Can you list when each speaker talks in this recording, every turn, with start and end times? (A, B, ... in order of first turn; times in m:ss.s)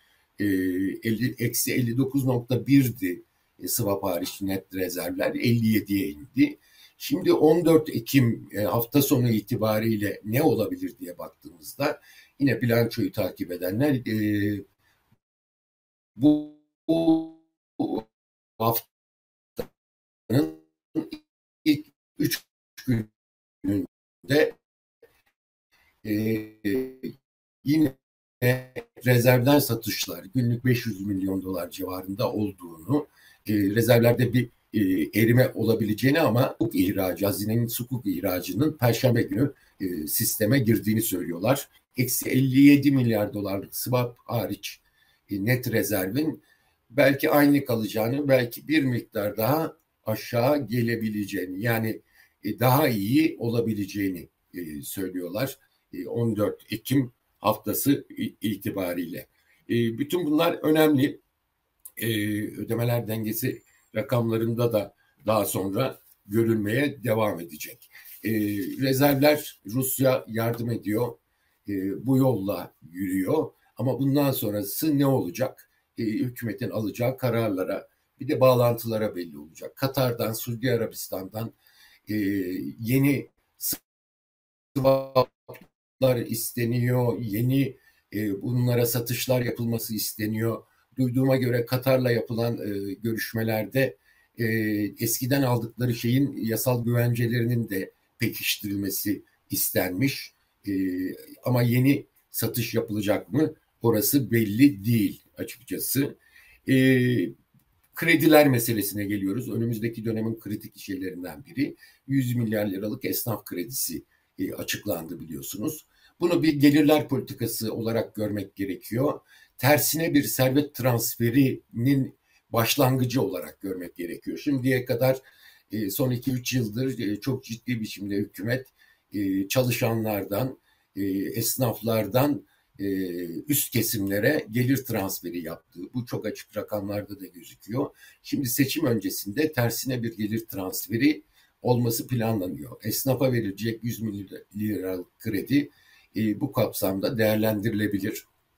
0:00.4-0:14.6 A
0:16.2-0:18.1 A
0:18.6-0:18.9 A
0:20.3-0:23.1 A
0:23.6-0:24.6 A
0:26.0-1:01.2 A
1:02.0-1:21.6 A
1:22.1-1:23.8 A
1:24.7-1:46.2 A
1:46.7-1:47.3 A
1:47.9-2:05.2 A
2:05.7-2:28.2 A